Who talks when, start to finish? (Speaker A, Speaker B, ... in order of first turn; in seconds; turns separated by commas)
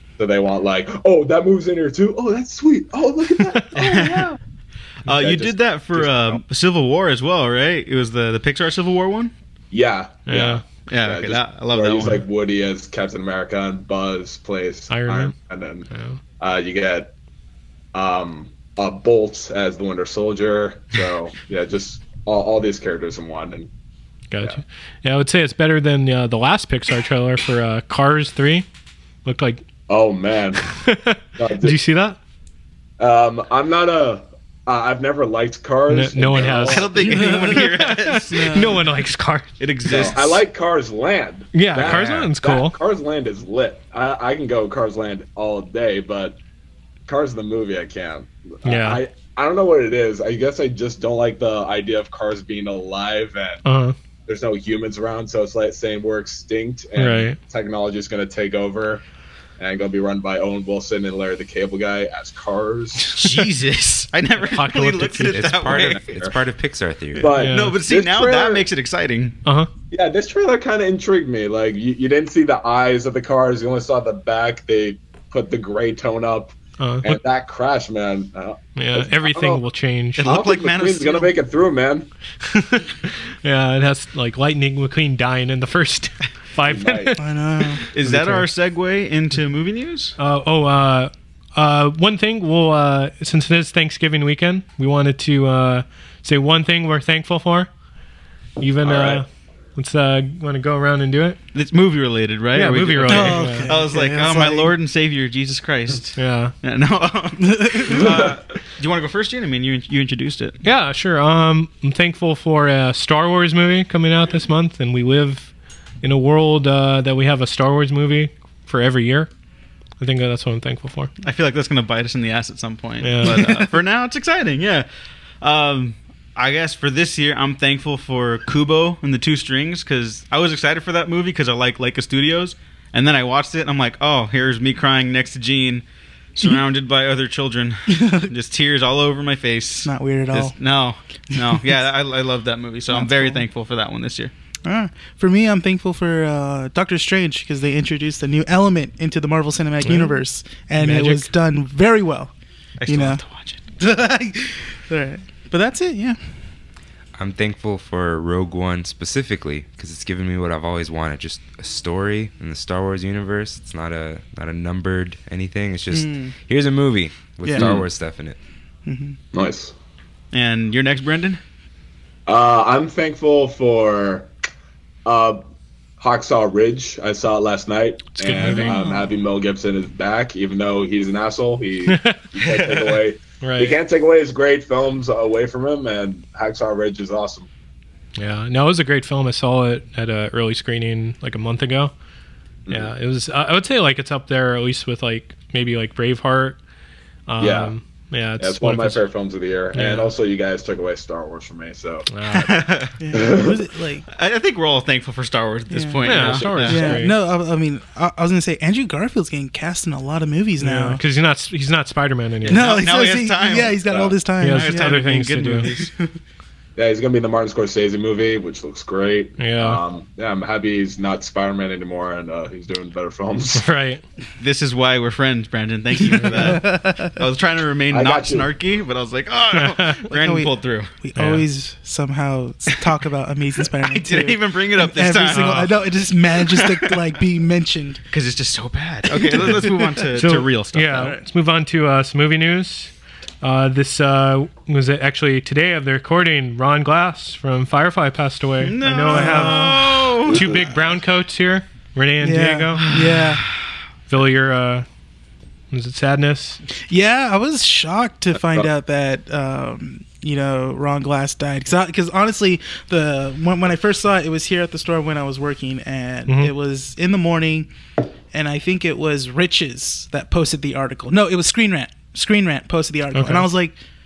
Speaker A: 0.2-4.4, Speaker B: 3.7-4.3, Speaker B: 5.0-9.3, Speaker A: 5.1-6.4, Speaker A: 9.7-17.1, Speaker C: 10.3-10.6, Speaker B: 10.9-12.2, Speaker C: 14.9-15.3, Speaker C: 15.9-16.2, Speaker A: 17.9-23.7, Speaker C: 24.3-28.6, Speaker C: 29.2-29.6, Speaker A: 29.9-30.6, Speaker C: 30.7-32.2, Speaker A: 31.4-31.8, Speaker A: 33.0-37.1, Speaker C: 35.9-39.5, Speaker B: 36.4-38.8, Speaker D: 37.0-37.7, Speaker D: 38.3-38.7, Speaker B: 39.6-40.4, Speaker A: 39.8-46.4, Speaker C: 41.5-42.8, Speaker E: 41.8-42.3, Speaker A: 47.1-53.6, Speaker C: 48.6-49.0, Speaker C: 53.6-53.9, Speaker A: 54.3-59.0, Speaker C: 57.0-57.4, Speaker A: 59.6-63.1, Speaker B: 63.2-66.0, Speaker C: 64.5-65.4, Speaker E: 65.2-67.3, Speaker A: 65.6-66.4, Speaker A: 67.2-68.6, Speaker C: 67.4-67.7, Speaker B: 67.4-69.4, Speaker A: 69.9-79.6, Speaker C: 76.8-77.2, Speaker C: 78.8-80.3, Speaker B: 80.2-81.3, Speaker A: 80.2-82.1, Speaker C: 82.4-87.2, Speaker A: 86.6-87.2, Speaker D: 87.2-87.8, Speaker C: 87.9-88.5, Speaker B: 87.9-90.2, Speaker C: 90.2-97.7, Speaker C: 98.6-101.4, Speaker A: 98.8-99.2, Speaker B: 101.5-110.6, Speaker C: 102.5-103.7, Speaker D: 103.0-104.7, Speaker C: 106.2-106.5, Speaker D: 107.4-108.2, Speaker C: 110.6-115.5, Speaker C: 116.0-119.3, Speaker C: 120.0-121.1, Speaker B: 121.2-124.8, Speaker C: 123.0-123.4, Speaker B: 125.4-135.8, Speaker B: 136.3-144.3, Speaker D: 137.9-138.3, Speaker D: 139.8-140.5, Speaker D: 142.9-143.4, Speaker D: 144.6-152.3, Speaker C: 149.8-150.2, Speaker C: 150.8-151.3, Speaker B: 152.8-153.6, Speaker D: 152.8-153.2, Speaker D: 153.8-156.2, Speaker E: 157.1-168.4, Speaker D: 165.9-166.3, Speaker D: 167.4-167.7, Speaker A: 167.5-167.8, Speaker D: 168.9-169.2, Speaker A: 169.3-169.7, Speaker B: 170.3-171.4, Speaker A: 172.2-174.3, Speaker A: 175.0-175.4, Speaker A: 176.0-187.5, Speaker C: 178.2-178.8, Speaker D: 178.4-179.0, Speaker C: 181.9-182.3, Speaker C: 183.4-183.8, Speaker C: 188.2-191.9, Speaker A: 192.7-192.9, Speaker C: 192.7-196.6, Speaker C: 197.3-199.1, Speaker A: 197.4-197.7, Speaker A: 198.4-202.1, Speaker C: 199.7-200.1, Speaker C: 202.1-202.5, Speaker B: 202.3-202.9, Speaker D: 203.0-204.0, Speaker A: 203.1-203.6, Speaker B: 204.1-207.1, Speaker D: 205.7-211.0, Speaker C: 206.0-207.1, Speaker C: 210.6-212.7, Speaker B: 212.4-215.9, Speaker D: 212.5-215.0, Speaker A: 213.9-214.1, Speaker C: 214.4-215.7, Speaker A: 216.8-223.7, Speaker C: 219.4-219.8, Speaker C: 223.6-224.0, Speaker B: 224.4-230.9, Speaker D: 226.1-227.2, Speaker A: 227.9-228.5, Speaker C: 229.6-230.0, Speaker D: 230.1-238.0, Speaker C: 231.2-231.4, Speaker B: 233.8-237.0, Speaker B: 238.1-241.1, Speaker D: 239.1-240.3, Speaker C: 240.2-252.9, Speaker D: 240.9-241.2, Speaker B: 248.6-250.4, Speaker D: 249.1-250.3, Speaker D: 252.2-253.4, Speaker B: 252.8-253.4, Speaker C: 254.1-254.8, Speaker C: 255.7-256.6, Speaker D: 256.9-267.7, Speaker A: 258.4-258.7, Speaker D: 268.3-273.8, Speaker C: 273.1-273.5